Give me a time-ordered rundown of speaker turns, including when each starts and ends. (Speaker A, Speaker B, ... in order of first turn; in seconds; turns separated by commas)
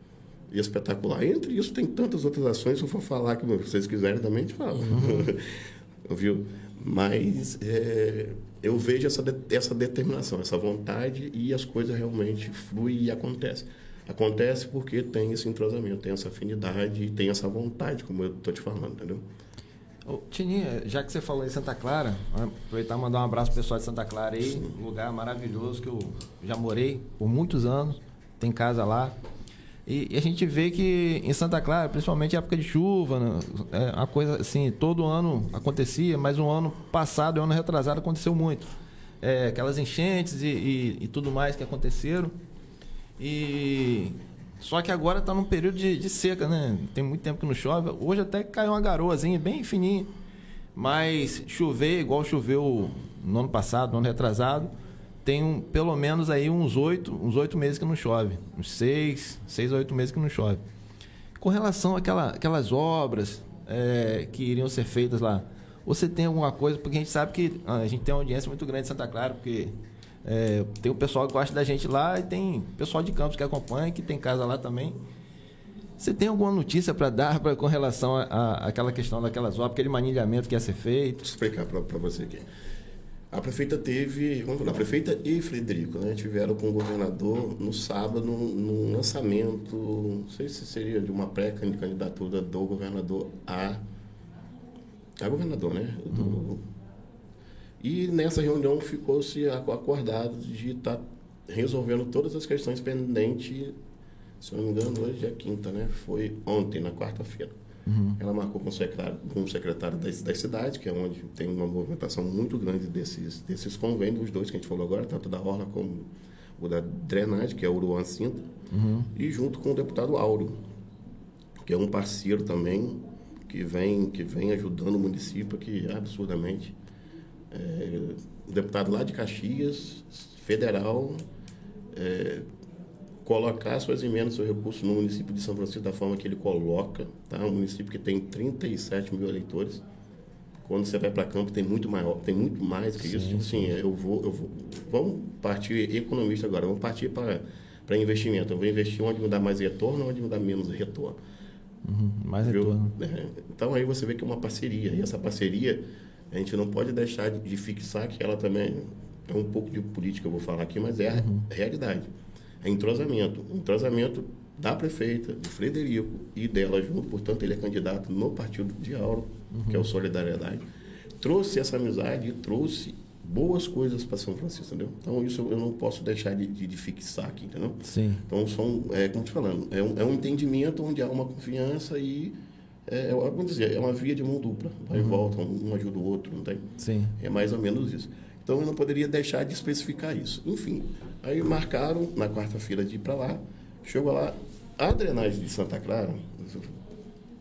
Speaker A: 0.5-19.2, Speaker B: 4.9-5.3, Speaker B: 20.1-29.2, Speaker B: 29.9-42.4, Speaker B: 43.2-50.1, Speaker B: 50.8-54.7, Speaker B: 55.2-60.6, Speaker B: 61.4-75.0, Speaker B: 76.0-81.2, Speaker A: 81.2-82.5, Speaker A: 83.3-93.8, Speaker A: 95.2-96.6, Speaker A: 97.8-103.8, Speaker A: 104.4-107.6, Speaker B: 107.9-108.2, Speaker A: 108.2-118.5, Speaker B: 118.7-119.1, Speaker A: 119.1-120.6, Speaker A: 121.6-126.8, Speaker A: 127.5-131.2, Speaker A: 131.9-132.5, Speaker A: 133.2-139.8, Speaker A: 140.6-151.2, Speaker B: 143.0-143.7, Speaker B: 151.8-152.9, Speaker A: 152.4-162.1, Speaker B: 161.1-161.5, Speaker A: 162.6-170.6, Speaker B: 169.5-169.9, Speaker A: 171.2-186.7, Speaker B: 177.8-178.2, Speaker B: 184.9-185.2, Speaker B: 186.8-187.2, Speaker A: 187.2-196.8